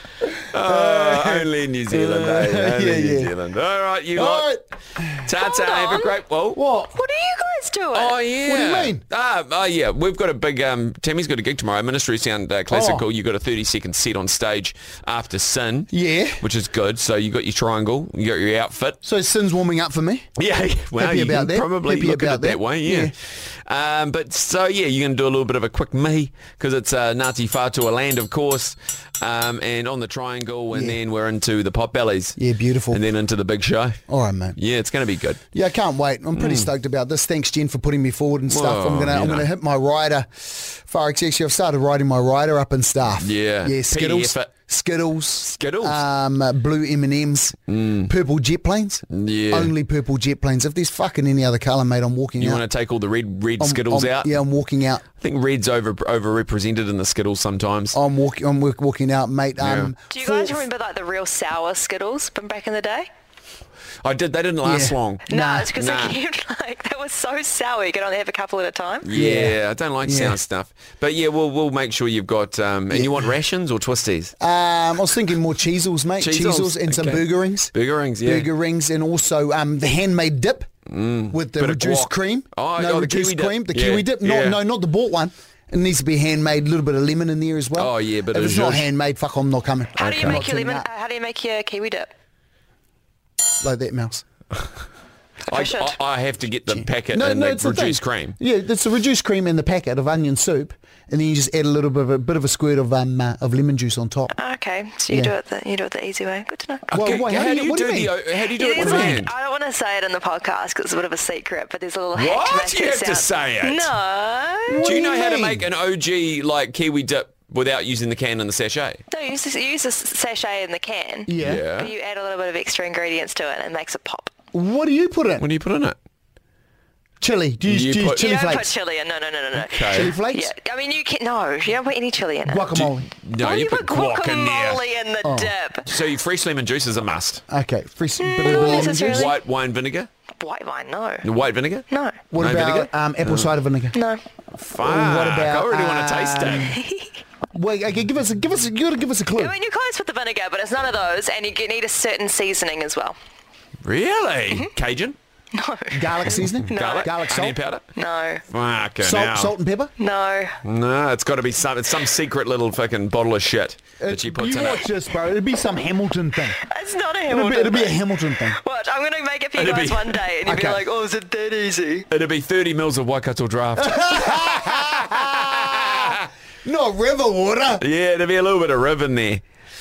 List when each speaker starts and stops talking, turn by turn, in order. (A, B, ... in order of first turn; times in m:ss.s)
0:00.4-0:04.5 A
0:00.5-0:03.3 B
0:04.1-0:05.3 B
0:05.2-0:06.6 A
0:05.4-0:06.2 C
0:06.5-0:06.9 B
0:06.9-0:08.2 C
0:07.9-0:19.0 A
0:08.4-0:09.0 B
0:12.7-0:13.0 B
0:15.9-0:16.4 B
0:19.0-0:20.2 B
0:20.4-0:32.4 A
0:21.0-0:23.1 B
0:30.7-0:31.0 B
0:32.4-0:33.0 B
0:32.9-0:34.0 A
0:34.1-0:34.6 B
0:34.5-0:35.5 A
0:35.5-0:52.6 B
0:36.4-0:36.7 A
0:38.5-0:39.5 A
0:43.2-0:44.5 A
0:45.4-0:46.0 A
0:47.7-0:48.1 A
0:49.1-0:49.7 A
0:52.4-0:54.4 A
0:53.6-0:55.0 B
0:55.1-0:58.0 A
0:57.9-1:00.6 B
0:59.6-0:59.9 A
1:00.1-1:03.1 C
1:04.0-1:06.1 A
1:04.6-1:05.7 B
1:05.3-1:09.1 C
1:09.0-1:14.3 A
1:09.1-1:10.4 B
1:12.9-1:13.3 B
1:14.4-1:17.7 B
1:16.2-1:18.5 A
1:18.2-1:20.7 B
1:20.9-1:24.6 A
1:21.3-1:30.9 B
1:27.7-1:28.9 A
1:30.0-1:32.1 C
1:30.0-1:30.4 A
1:33.6-1:34.2 B
1:35.5-1:36.0 C
1:35.5-1:38.4 A
1:36.7-1:44.3 B
1:44.3-1:47.0 C
1:45.1-1:45.3 B
1:46.9-1:48.2 B
1:46.9-1:49.3 A
1:48.6-1:55.0 C
1:48.8-1:49.2 B
1:52.1-1:53.9 A
1:54.7-1:55.7 B
1:54.8-1:59.0 A
1:59.1-2:04.3 C
2:01.3-2:01.6 B
2:01.4-2:01.9 A
2:04.5-2:05.4 B
2:05.4-2:06.0 A
2:07.2-2:08.7 B
2:07.6-2:08.4 A
2:08.1-2:12.7 C
2:09.5-2:10.1 A
2:09.9-2:10.5 B
2:12.4-2:13.1 B
2:12.7-2:14.8 A
2:13.4-2:15.9 C
2:15.2-2:15.5 B
2:15.8-2:17.4 A
2:17.5-2:19.3 B
2:18.2-2:19.4 C
2:18.4-2:20.1 A
2:20.4-2:21.3 C
2:21.2-2:21.8 A
2:21.9-2:22.2 C
2:22.3-2:24.0 B
2:22.4-2:23.6 A
2:23.9-2:24.2 C
2:24.5-2:26.8 A
2:24.8-2:26.8 B
2:26.6-2:27.1 C
2:27.5-2:29.5 B
2:29.4-2:33.2 C
2:33.8-2:35.2 A
2:35.5-2:37.1 C
2:35.9-2:37.6 B
2:36.3-2:37.8 A
2:37.9-2:38.4 C
2:38.5-2:39.5 A
2:39.0-2:39.9 B
2:40.0-2:40.6 C
2:40.6-2:44.9 A
2:44.0-2:46.6 B
2:46.6-2:52.0 C
2:47.3-2:48.6 B
2:49.6-2:50.3 A
2:50.4-2:50.8 B
2:52.1-2:56.2 A
2:53.8-2:57.8 B
2:57.8-2:59.4 A